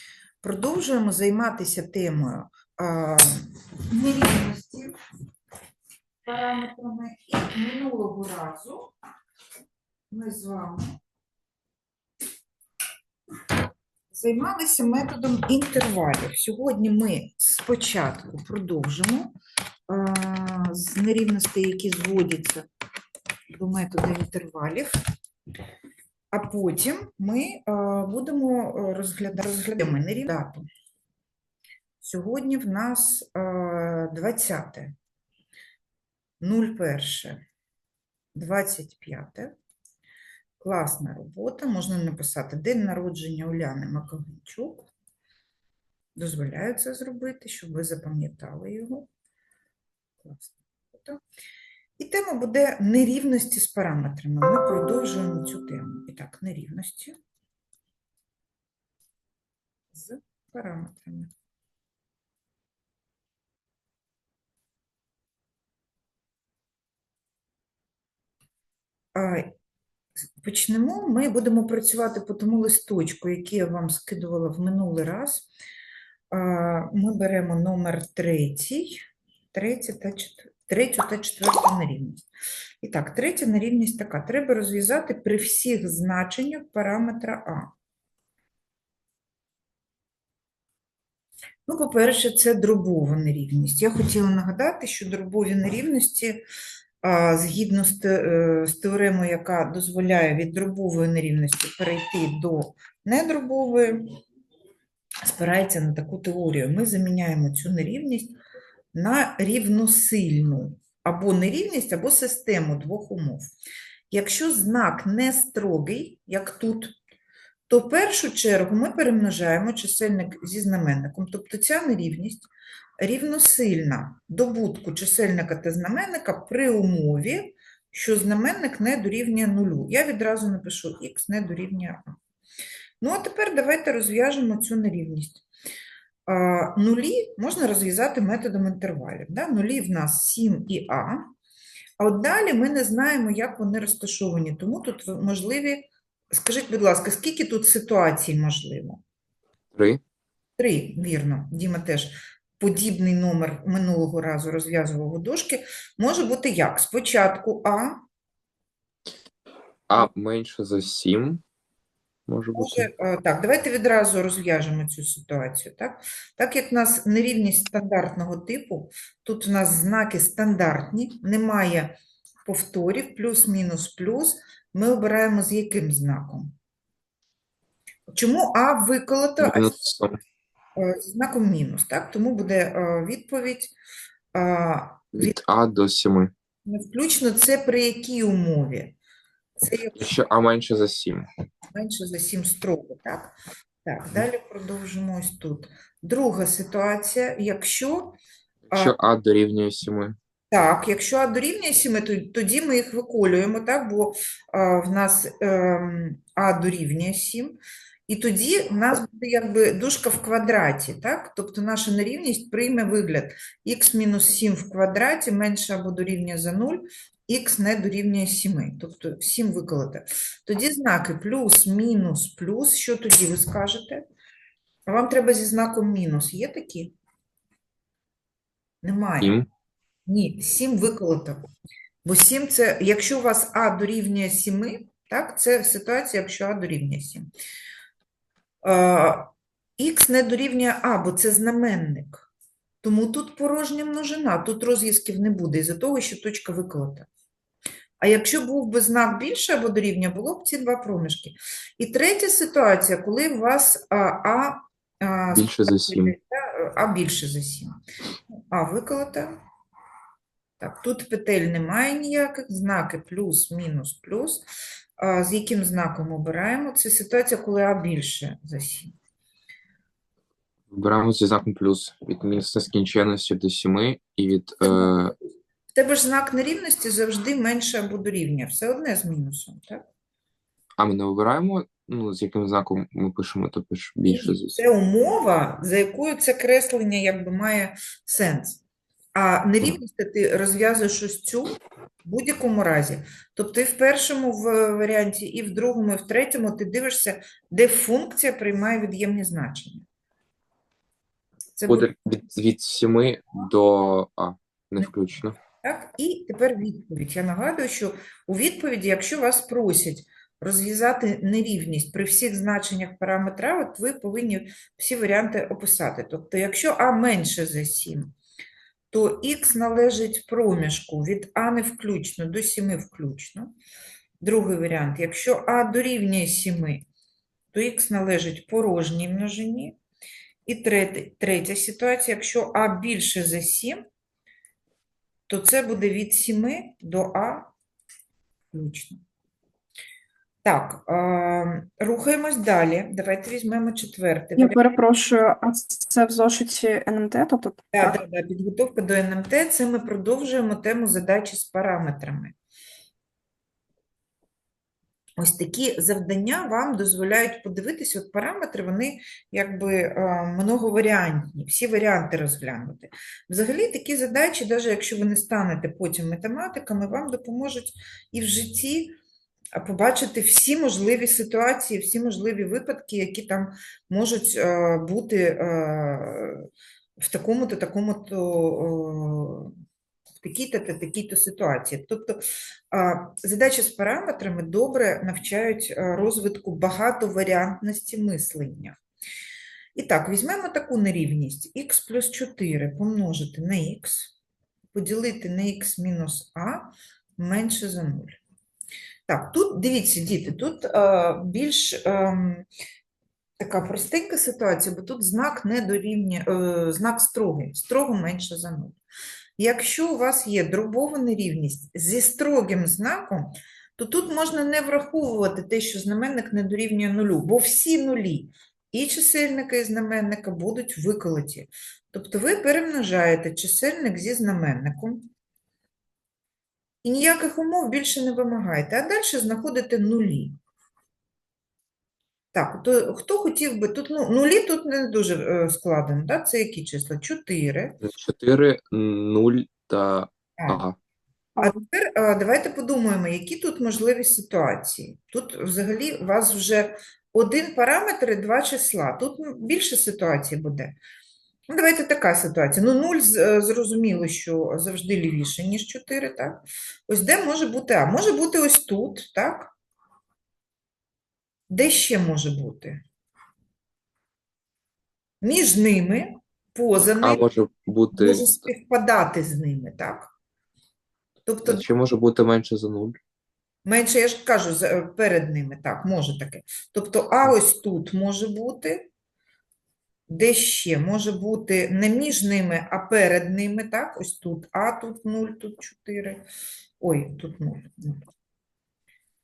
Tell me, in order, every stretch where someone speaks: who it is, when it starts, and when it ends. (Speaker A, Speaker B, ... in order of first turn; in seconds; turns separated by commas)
Speaker A: 0.4-4.9, Speaker A: 6.2-8.9, Speaker A: 10.1-11.0, Speaker A: 14.1-19.3, Speaker A: 19.9-22.6, Speaker A: 23.5-24.9, Speaker A: 26.3-30.6, Speaker A: 32.0-34.9, Speaker A: 36.4-37.4, Speaker A: 38.3-39.5, Speaker A: 40.6-44.9, Speaker A: 46.1-49.1, Speaker A: 50.2-51.2, Speaker A: 52.0-57.1, Speaker A: 59.9-61.3, Speaker A: 69.1-69.5, Speaker A: 70.4-75.5, Speaker A: 76.3-82.2, Speaker A: 82.8-87.7, Speaker A: 91.7-96.4, Speaker A: 97.0-104.1, Speaker A: 105.2-108.3, Speaker A: 108.9-113.5, Speaker A: 114.1-117.0, Speaker A: 117.7-122.5, Speaker A: 123.0-132.2, Speaker A: 133.0-135.4, Speaker A: 136.3-141.3, Speaker A: 142.0-149.0, Speaker B: 149.7-150.0, Speaker A: 150.6-158.0, Speaker B: 159.9-161.4, Speaker B: 162.3-162.9, Speaker A: 162.5-171.9, Speaker A: 172.4-176.5, Speaker A: 178.1-179.7, Speaker B: 179.4-180.2, Speaker A: 180.8-183.7, Speaker A: 184.3-185.4, Speaker B: 185.1-186.3, Speaker A: 186.7-188.9, Speaker A: 189.6-190.1, Speaker B: 189.9-191.2, Speaker A: 191.7-193.3, Speaker A: 193.8-198.2, Speaker B: 198.7-200.2, Speaker A: 200.5-224.0, Speaker A: 224.9-226.9, Speaker A: 228.8-229.3, Speaker B: 229.2-229.5, Speaker A: 230.1-231.4, Speaker A: 232.0-237.3, Speaker A: 238.6-242.3, Speaker A: 242.8-247.1, Speaker A: 248.0-257.8, Speaker B: 255.3-256.1, Speaker A: 258.5-259.4, Speaker A: 260.6-264.4, Speaker A: 265.0-268.9, Speaker B: 270.7-275.1, Speaker A: 274.6-279.8, Speaker B: 280.8-284.6, Speaker A: 284.1-288.6, Speaker A: 289.1-299.8, Speaker A: 301.6-301.9, Speaker B: 301.6-305.4, Speaker A: 305.6-318.1, Speaker A: 318.9-323.5, Speaker A: 324.2-326.9, Speaker A: 327.5-329.8, Speaker A: 330.4-333.8, Speaker A: 335.3-337.5, Speaker A: 338.5-339.0, Speaker A: 340.4-344.6, Speaker C: 344.4-348.0, Speaker A: 347.7-352.3, Speaker A: 355.2-368.9, Speaker A: 369.5-376.5, Speaker A: 377.0-379.5, Speaker A: 380.2-388.8, Speaker A: 389.7-394.1, Speaker A: 394.7-398.2, Speaker A: 399.1-402.4, Speaker A: 403.4-408.8, Speaker A: 409.4-425.1, Speaker A: 426.8-430.4, Speaker A: 432.3-437.8, Speaker B: 437.8-440.8, Speaker A: 441.4-450.8, Speaker A: 451.5-459.5, Speaker A: 461.5-462.8, Speaker A: 465.2-467.2, Speaker B: 466.8-468.5, Speaker A: 467.9-470.1, Speaker A: 471.2-471.6, Speaker B: 471.4-473.0, Speaker A: 473.6-478.9, Speaker A: 480.1-486.2, Speaker A: 486.8-488.0